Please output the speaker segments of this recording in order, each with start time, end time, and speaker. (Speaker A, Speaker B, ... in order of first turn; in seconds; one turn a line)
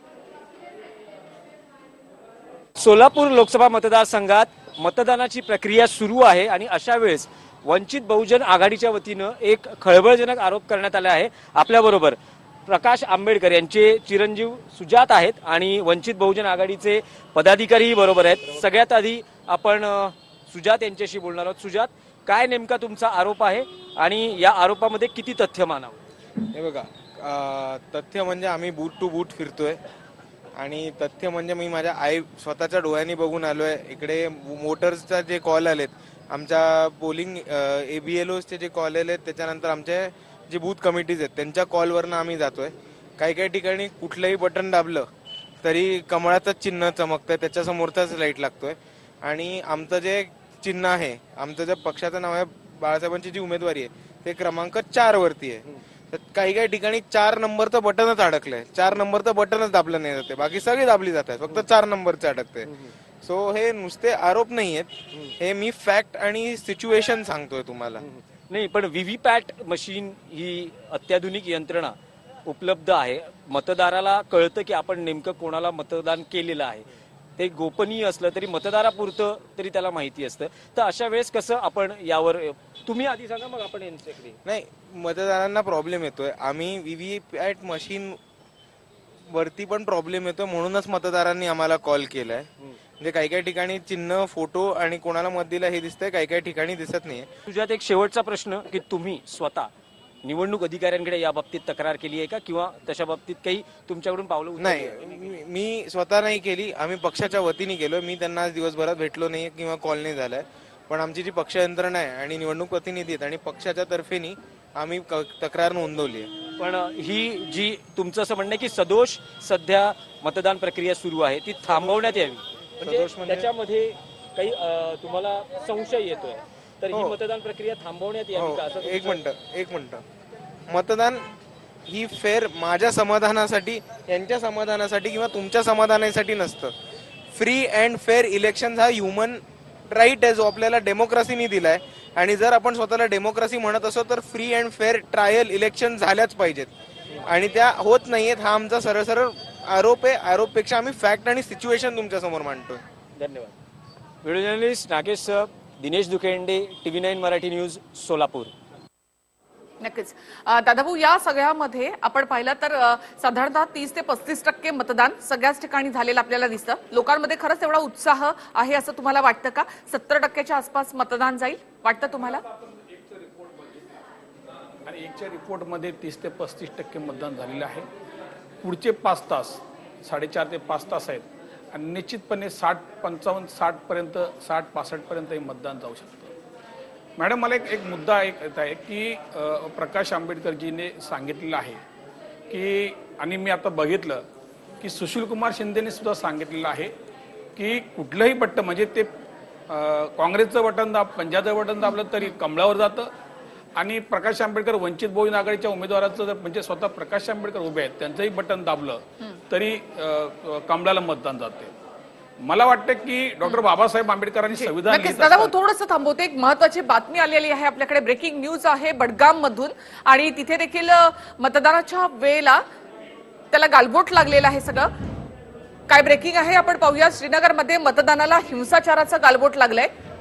Speaker A: 2.8-26.0
Speaker B: 26.5-29.8
Speaker B: 30.6-45.1
Speaker B: 45.6-68.0
Speaker A: 68.0-72.0
Speaker A: 72.5-84.4
Speaker B: 84.5-88.2
Speaker B: 89.3-92.5
Speaker B: 93.0-97.3
Speaker A: 97.5-99.7
Speaker A: 100.2-105.3
Speaker B: 104.6-116.3
Speaker A: 116.6-129.2
Speaker B: 122.8-123.5
Speaker B: 128.3-130.0
Speaker B: 130.7-131.3
Speaker B: 131.9-136.7
Speaker B: 137.3-146.7
Speaker B: 147.3-152.8
Speaker A: 153.2-153.5
Speaker A: 154.2-158.5
Speaker C: 159.8-172.4
Speaker D: 172.8-173.7
Speaker D: 174.9-177.9
Speaker D: 178.6-186.3
Speaker D: 187.2-191.8
Speaker D: 192.5-194.2
Speaker D: 194.8-196.9
Speaker D: 197.6-199.1
Speaker D: 199.7-203.1
Speaker D: 203.8-211.7
Speaker D: 212.4-215.5
Speaker C: 214.5-222.6
Speaker C: 223.5-224.9
Speaker C: 225.9-229.9